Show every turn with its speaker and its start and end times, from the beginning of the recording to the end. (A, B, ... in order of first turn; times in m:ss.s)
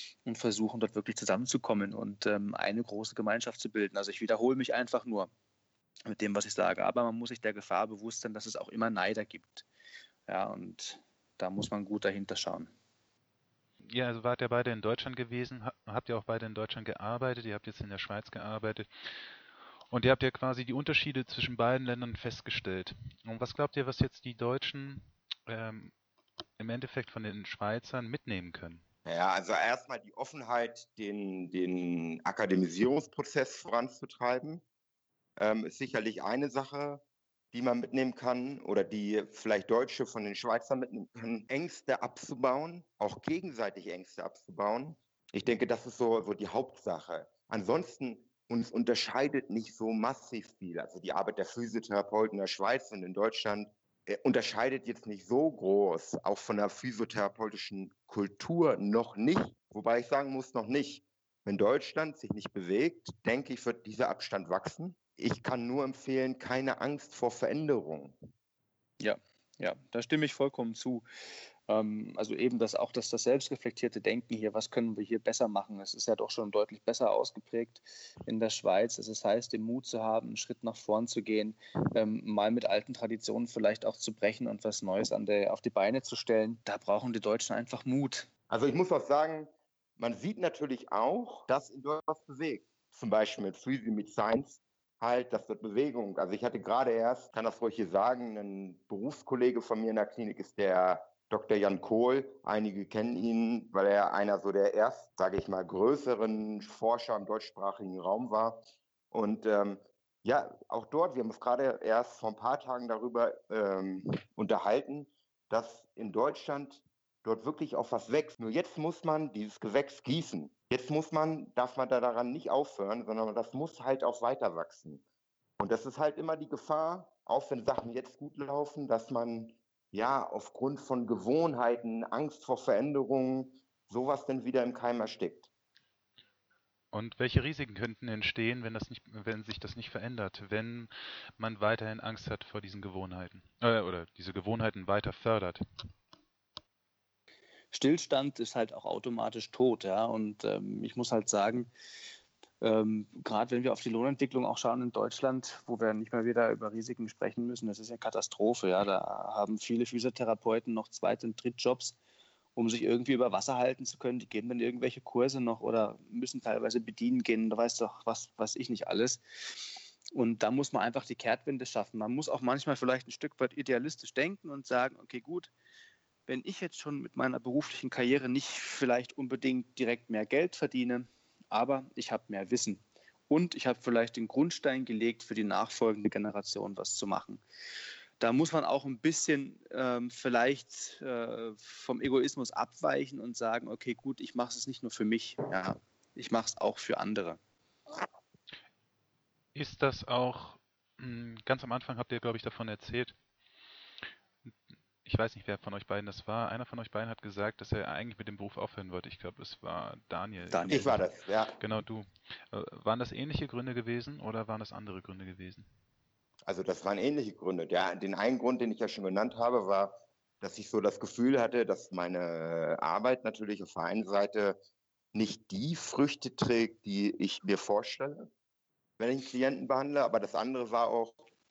0:00.2-0:05.3 A
0:06.0-0:09.6 A
0:10.3-0:12.7 A
0:13.9-0:19.2 B
0:19.9-0:25.9 B
0:26.6-0:28.8 B
0:29.0-0:34.6 C
0:35.4-1:08.2 C
1:09.0-1:11.0 A
1:11.7-1:28.3 A
1:28.5-2:05.0 C
2:05.6-2:15.5 C
2:16.9-2:25.6 B
2:27.7-2:31.7 A
2:32.6-2:42.0 A
2:42.6-2:49.2 A
2:50.1-2:55.5 A
2:56.3-3:07.4 A
3:08.2-3:17.4 A
3:19.5-3:23.1 B
3:25.0-3:31.0 B
3:30.5-3:30.9 A
3:30.7-3:31.6 C
3:31.6-3:35.7 B
3:36.5-3:44.6 C
3:45.1-3:48.3 C
3:49.0-3:51.2 C